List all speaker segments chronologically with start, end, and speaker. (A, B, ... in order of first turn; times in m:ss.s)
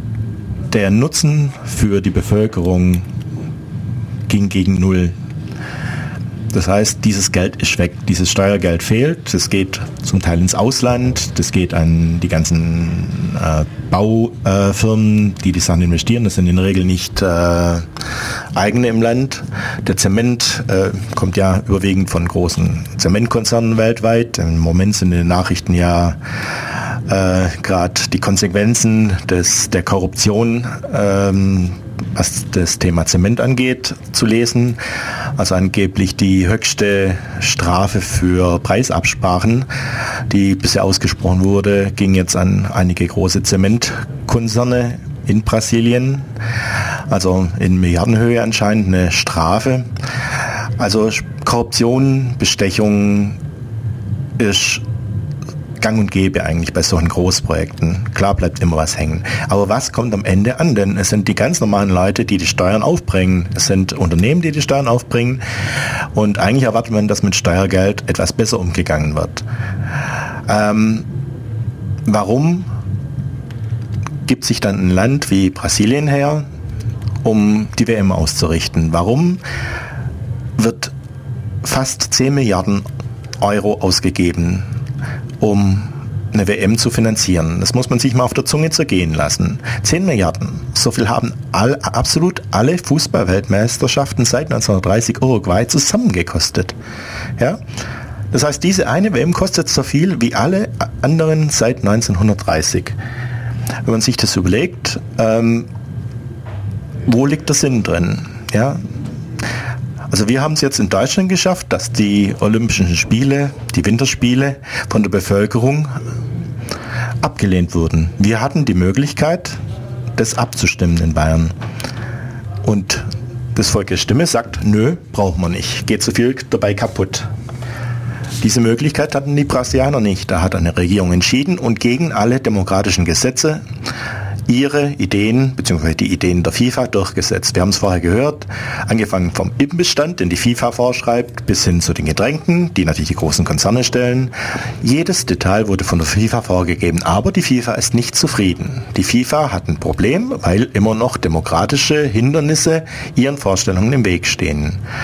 0:00.7-0:03.0 A
0:04.3-0:05.1 A
0:06.5-0:17.8 A
0:18.6-0:26.2 A
0:27.1-0:34.8 A
0:35.4-0:39.7 A
0:40.3-0:46.3 A
0:47.1-0:49.9 A
0:50.8-0:53.4 A
0:54.4-0:54.8 A
0:55.8-1:05.4 A
1:06.1-1:09.4 A
1:10.5-1:11.0 A
1:12.0-1:12.7 A
1:14.2-1:16.5 A
1:17.2-1:19.4 A
1:20.6-1:20.9 A
1:21.6-1:22.9 A
1:23.4-1:24.7 A
1:25.4-1:36.7 A
1:38.3-1:43.0 A
1:43.8-1:45.7 A
1:47.0-1:48.8 A
1:50.1-1:55.9 A
1:57.2-1:59.6 A
2:00.2-2:01.5 A
2:02.6-2:07.3 A
2:08.4-2:13.6 A
2:14.5-2:34.8 A